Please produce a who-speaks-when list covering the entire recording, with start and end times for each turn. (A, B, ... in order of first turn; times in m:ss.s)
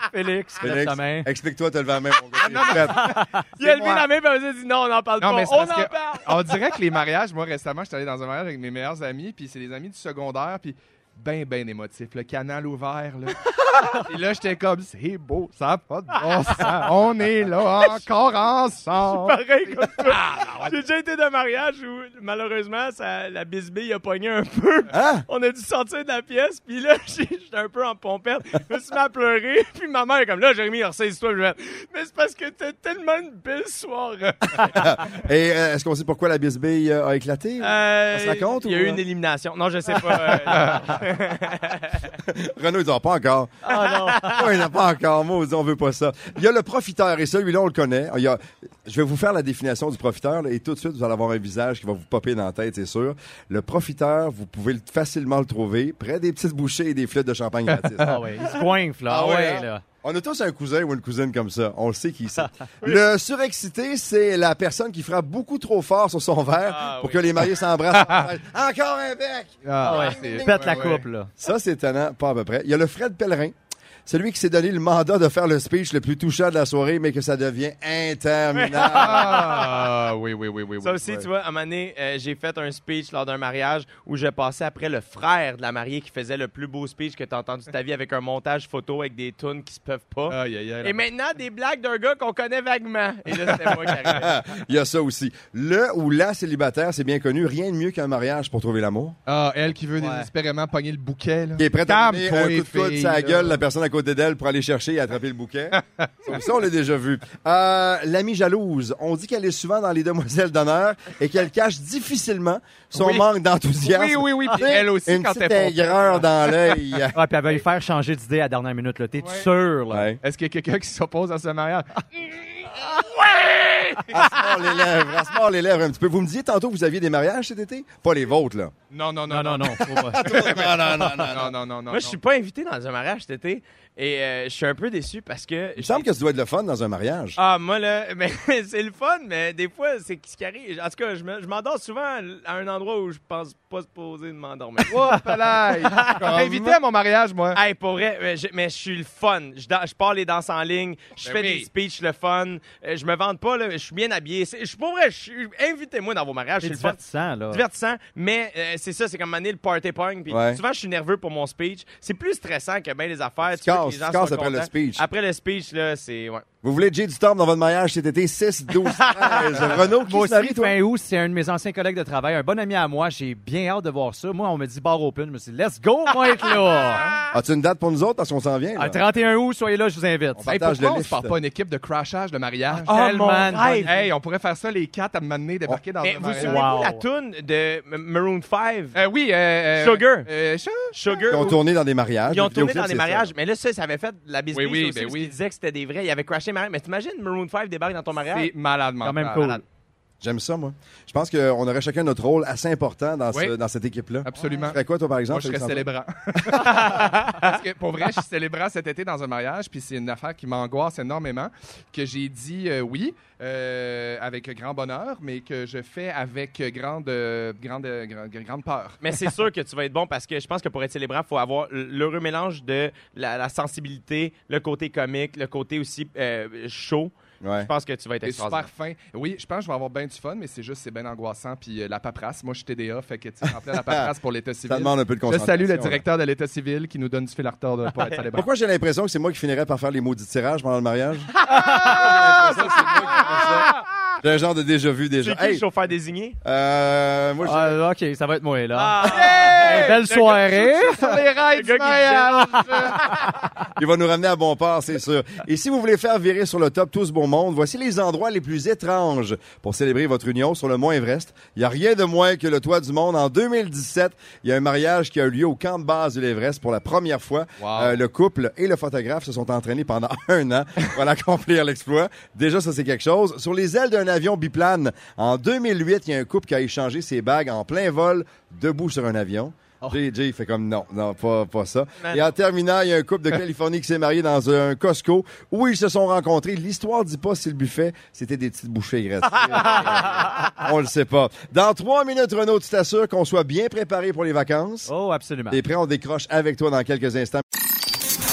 0:00.1-0:01.3 A
0:00.6-0:03.1 B
0:02.4-0:04.0 C
0:02.4-0:06.4 D
0:03.2-0:03.4 A
0:05.2-0:20.8 C
0:16.2-0:16.9 D
0:19.0-0:35.2 D
0:24.9-0:25.2 B
0:34.7-0:39.0 B
0:37.6-0:42.1 D
0:40.5-0:40.9 C
0:42.3-0:43.5 B
0:43.6-0:44.4 A
0:43.8-0:44.5 D
0:44.2-0:58.2 B
0:57.8-0:58.2 C
0:58.0-0:59.8 A
0:59.1-1:13.5 B
1:06.7-1:07.3 D
1:07.9-1:08.3 C
1:09.6-1:11.0 C
1:09.8-1:11.3 A
1:14.0-1:19.6 B
1:18.5-1:19.9 D
1:18.8-1:21.2 C
1:20.8-1:34.3 D
1:30.3-1:31.0 C
1:33.3-1:34.3 C
1:34.2-1:39.2 B
1:39.3-1:43.6 C
1:40.0-1:40.3 A
1:41.6-1:57.2 B
1:45.7-1:46.5 C
1:52.9-1:53.2 C
1:53.8-1:56.8 C
1:57.1-2:00.1 A
1:59.2-1:59.5 C
1:59.9-2:00.2 B
2:00.2-2:04.3 C
2:04.1-2:08.7 B
2:08.9-2:12.2 C
2:09.3-2:10.3 A
2:10.1-2:11.5 B
2:11.9-2:16.1 D
2:15.8-2:17.4 B
2:17.4-2:25.2 D
2:24.8-2:27.6 C
2:25.8-2:26.7 D
2:26.3-2:26.6 B
2:27.5-2:37.0 D
2:31.2-2:31.7 C
2:36.6-2:37.6 A
2:37.5-2:46.4 D
2:40.3-2:40.6 B
2:43.5-2:45.0 B
2:46.6-2:50.8 B
2:48.8-2:49.7 D
2:50.0-2:57.0 A
2:56.9-2:57.2 C
2:57.3-2:59.0 B
2:58.8-3:00.4 A
3:00.4-3:01.3 B
3:00.4-3:06.6 C
3:02.8-3:03.9 A
3:02.8-3:04.0 D
3:06.0-3:09.0 D
3:06.4-3:07.0 A
3:08.9-3:11.3 C
3:09.8-3:10.3 D
3:10.9-3:11.6 D
3:11.3-3:13.3 B
3:12.3-3:18.5 D
3:14.5-3:15.3 C
3:18.3-3:19.6 C
3:19.0-3:19.6 A
3:20.2-3:25.9 B
3:24.2-3:24.8 C
3:25.3-3:39.0 C
3:26.6-3:27.5 D
3:39.0-3:48.7 D
3:47.4-3:47.7 B
3:48.2-3:58.5 C
3:53.7-3:54.1 B
3:54.7-3:56.0 B
3:58.3-4:01.3 B
4:01.5-4:02.2 A
4:01.5-4:03.7 D
4:01.8-4:03.7 B
4:02.1-4:03.6 C
4:04.2-4:05.6 B
4:05.2-4:06.4 D
4:06.4-4:07.8 B
4:07.4-4:11.2 A
4:08.7-4:10.4 D
4:09.0-4:13.2 C
4:11.5-4:13.2 D
4:13.8-4:54.9 B
4:27.6-4:28.0 C
4:49.4-4:50.2 D
4:54.9-4:55.6 A
4:55.5-4:57.4 B